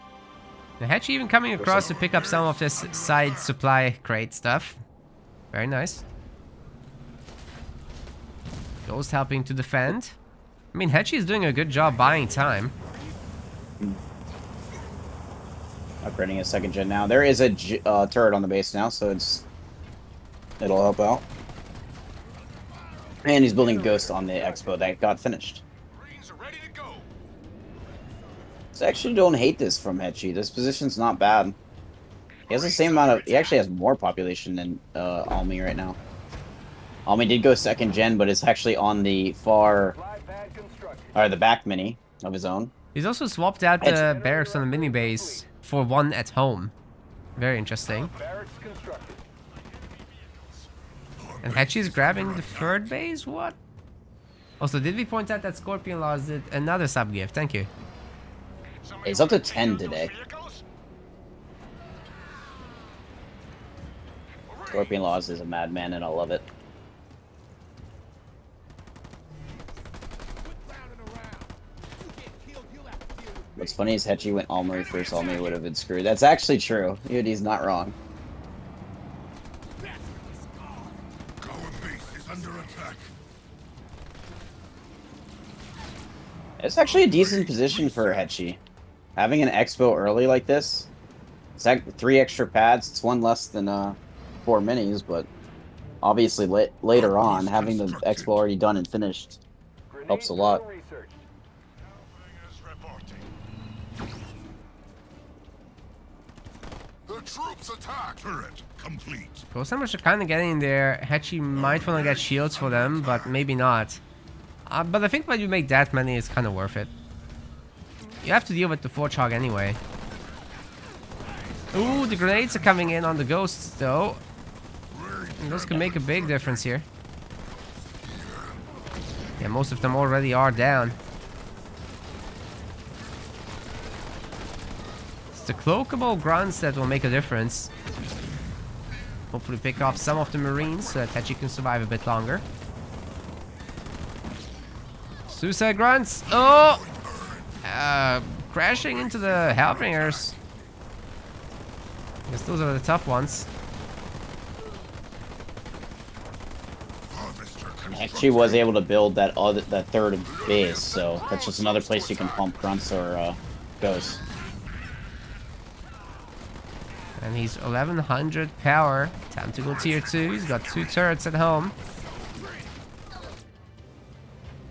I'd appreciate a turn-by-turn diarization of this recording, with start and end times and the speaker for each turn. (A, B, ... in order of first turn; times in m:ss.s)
0:00.8-0:04.8 A
0:01.6-0:03.6 B
0:05.5-0:06.0 A
0:08.9-0:10.2 A
0:10.7-0:12.7 A
0:16.0-0:19.4 C
0:20.6-0:21.2 C
0:23.2-0:25.6 C
0:23.6-0:24.8 D
0:26.0-0:27.1 B
0:28.8-0:31.6 C
0:32.5-0:33.6 B
0:32.5-0:36.0 C
0:37.1-0:40.0 C
0:39.8-0:41.2 D
0:41.2-0:42.7 C
0:43.0-0:46.7 A
0:43.9-0:45.5 D
0:47.4-0:48.1 A
0:47.9-0:49.2 D
0:51.2-0:52.9 B
0:51.4-0:53.6 A
0:54.6-0:57.7 A
0:58.9-1:00.6 B
0:59.0-1:00.1 C
1:04.5-1:04.9 B
1:04.7-1:06.5 C
1:10.7-1:11.4 B
1:12.7-1:13.6 B
1:13.6-1:18.0 C
1:14.7-1:15.5 B
1:19.8-1:20.9 B
1:21.4-1:23.1 B
1:26.6-1:28.6 C
1:26.8-1:28.3 B
1:29.2-1:30.9 C
1:31.6-1:35.3 C
1:36.0-1:39.4 C
1:36.9-1:38.4 B
1:39.9-1:41.2 D
1:40.1-1:40.6 C
1:42.1-1:43.2 B
1:47.1-1:49.5 B
1:49.5-1:54.0 A
1:51.5-1:53.4 B
1:54.7-1:56.9 A
1:58.2-1:59.8 A
2:01.5-2:03.0 B
2:01.7-2:04.2 A
2:04.9-2:06.7 B
2:05.4-2:06.9 A
2:08.0-2:08.6 B
2:09.4-2:11.0 A
2:15.4-2:17.7 A
2:19.3-2:22.4 A
2:19.9-2:20.8 B
2:25.3-2:26.8 A
2:26.3-2:27.5 B
2:27.6-2:30.4 A
2:28.7-2:30.6 B
2:32.3-2:33.5 A
2:37.1-2:38.7 B
2:37.9-2:44.2 C
2:40.2-2:42.8 B
2:47.2-2:51.7 A
2:49.7-2:51.0 B
2:52.2-2:52.7 B